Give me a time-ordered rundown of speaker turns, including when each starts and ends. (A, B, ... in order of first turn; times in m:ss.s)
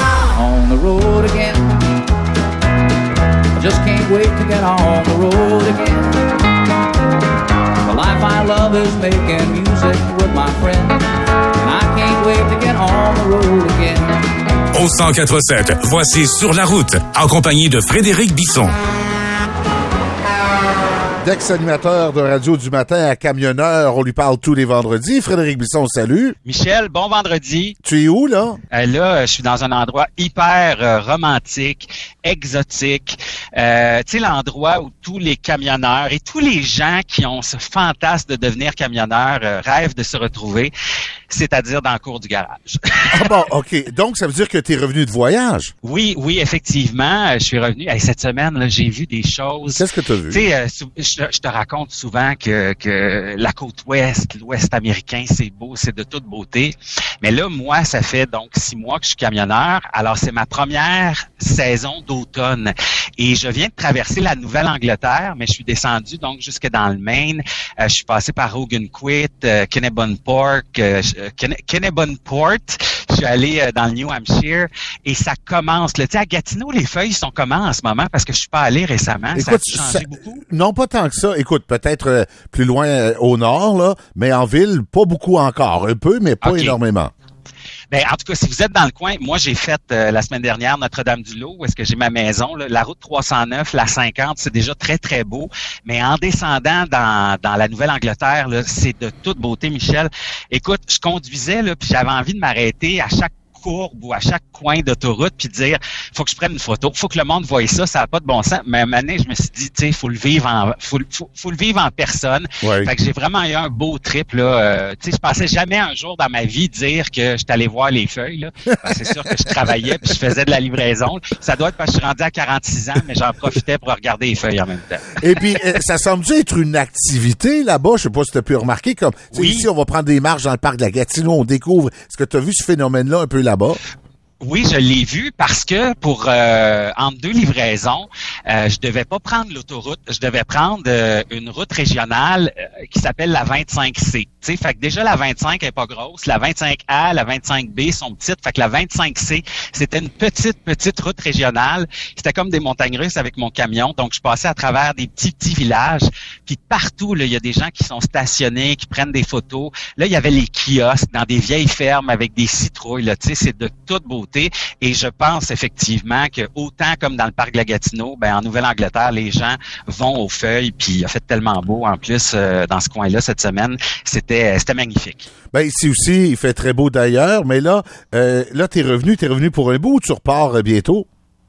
0:00.3-0:01.6 A
0:03.6-0:06.1 A
0:07.9-0:11.0 A
0:11.6-0:14.1 A
0:14.7-0:18.7 B
0:21.2-0:26.4 C
0:26.4-0:27.8 D
0:27.8-0:28.6 C
0:28.7-0:40.7 D
0:41.3-0:43.4 D
0:43.1-0:45.7 C
0:45.8-1:20.4 D
0:49.8-0:50.5 C
1:19.4-1:27.1 C
1:26.4-1:26.8 D
1:27.9-2:05.4 D
1:52.6-1:52.9 C
1:58.9-1:59.5 C
2:05.2-2:13.8 C
2:09.3-2:09.7 D
2:14.4-2:55.3 D
2:55.5-3:01.1 C